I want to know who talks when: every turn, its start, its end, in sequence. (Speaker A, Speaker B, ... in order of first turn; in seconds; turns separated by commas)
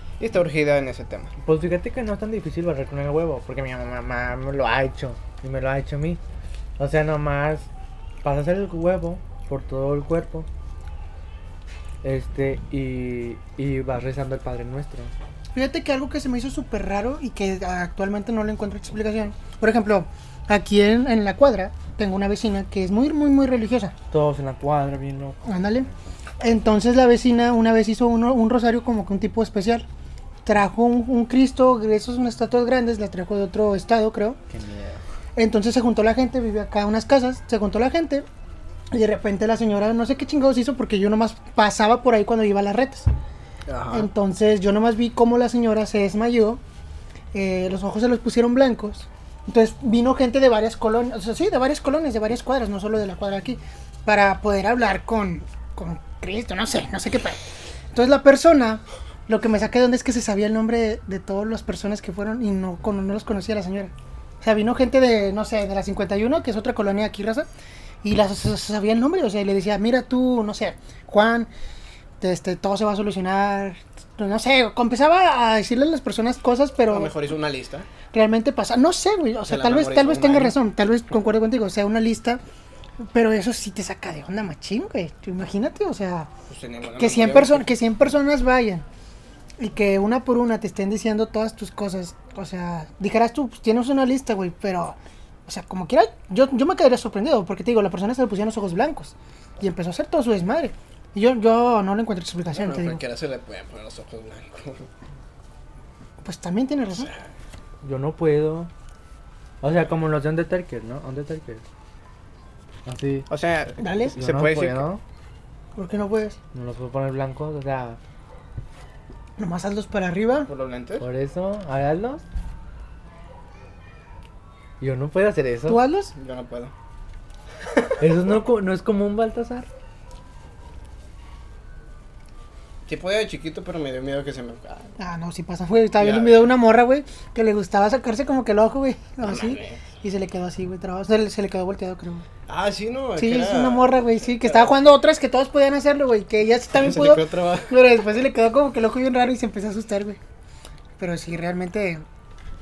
Speaker A: 0.2-1.3, Speaker B: 1.4-6.2, Speaker B: 6.8-7.7, Speaker B: 8.2-10.5, Speaker B: 12.0-15.1, Speaker C: 15.5-23.9, Speaker B: 24.1-25.4, Speaker C: 25.4-25.9, Speaker C: 26.4-29.9, Speaker C: 30.4-34.4, Speaker B: 34.5-35.0, Speaker C: 35.4-38.2, Speaker C: 38.9-43.1, Speaker A: 43.7-44.1, Speaker C: 43.9-46.6, Speaker C: 47.3-57.4, Speaker C: 57.9-67.5, Speaker C: 68.0-71.5, Speaker C: 72.2-77.1, Speaker A: 76.9-77.9, Speaker C: 78.1-82.4, Speaker A: 79.5-80.5, Speaker C: 83.1-86.3, Speaker A: 86.5-87.7, Speaker C: 87.0-88.8, Speaker C: 89.6-103.0, Speaker A: 102.5-104.9, Speaker C: 106.2-107.1, Speaker B: 107.8-108.7, Speaker B: 109.6-111.6, Speaker B: 112.8-113.3, Speaker A: 113.3-114.9, Speaker C: 113.8-114.2, Speaker B: 114.1-115.0, Speaker C: 115.7-116.4, Speaker B: 116.5-118.0, Speaker C: 119.4-120.5, Speaker A: 120.4-121.1, Speaker B: 121.0-122.2, Speaker B: 124.8-125.8, Speaker C: 125.7-126.1, Speaker A: 126.1-126.7, Speaker B: 128.0-129.7, Speaker A: 132.8-134.9, Speaker C: 135.0-142.2, Speaker A: 136.0-136.5, Speaker A: 139.2-139.8, Speaker A: 142.5-144.7, Speaker C: 143.2-150.2, Speaker A: 146.7-147.9, Speaker C: 151.0-152.0